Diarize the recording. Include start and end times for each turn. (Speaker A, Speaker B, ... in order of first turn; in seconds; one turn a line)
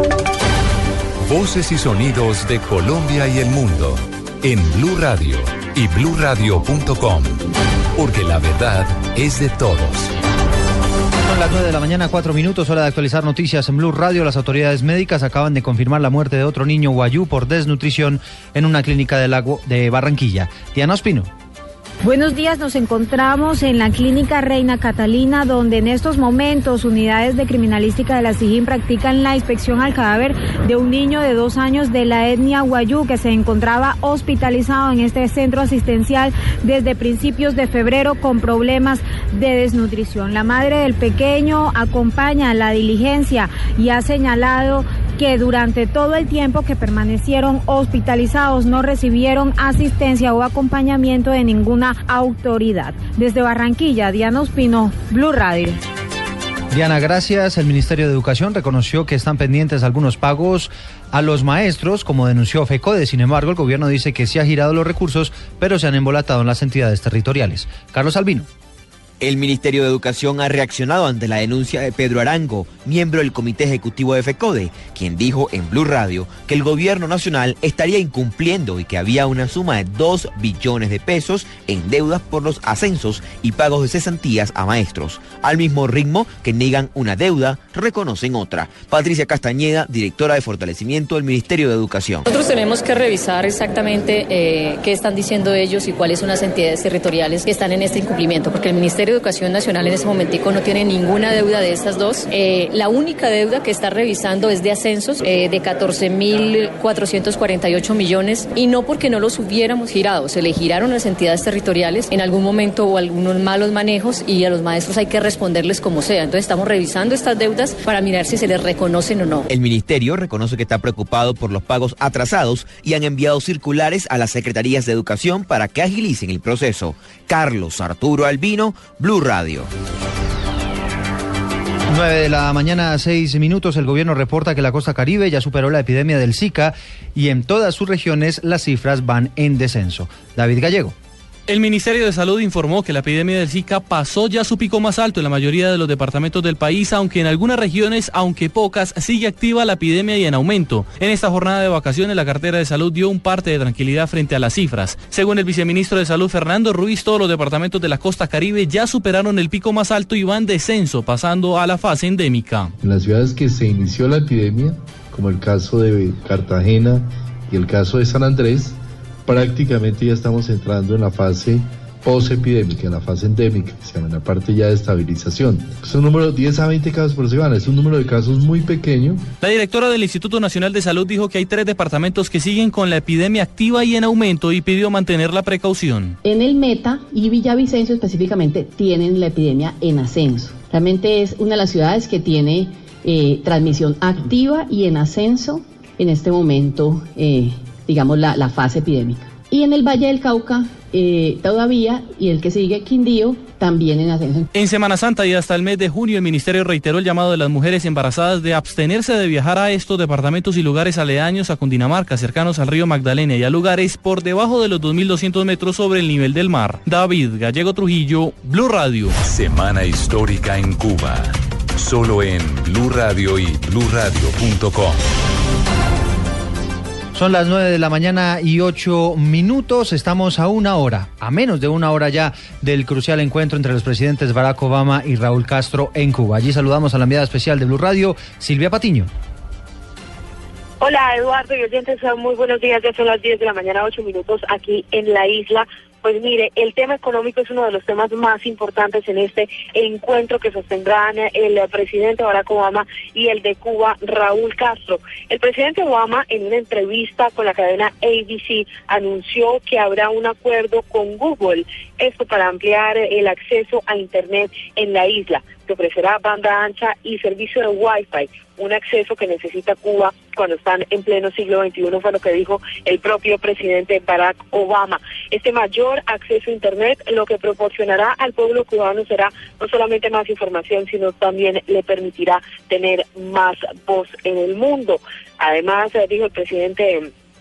Speaker A: 1.2-7.3
Speaker A: 8.0-10.1
Speaker B: 11.2-21.3
Speaker C: 22.0-55.8
Speaker B: 56.7-68.5
Speaker D: 69.2-92.2
Speaker E: 92.3-119.4
Speaker D: 119.5-129.7
Speaker B: 131.9-140.9
Speaker F: 141.5-162.7
Speaker G: 162.8-179.2
Speaker F: 179.4-186.2
Speaker H: 186.2-204.5
Speaker F: 204.5-219.1
Speaker A: 219.2-225.0
Speaker B: 227.1-239.1
Speaker I: 240.8-287.1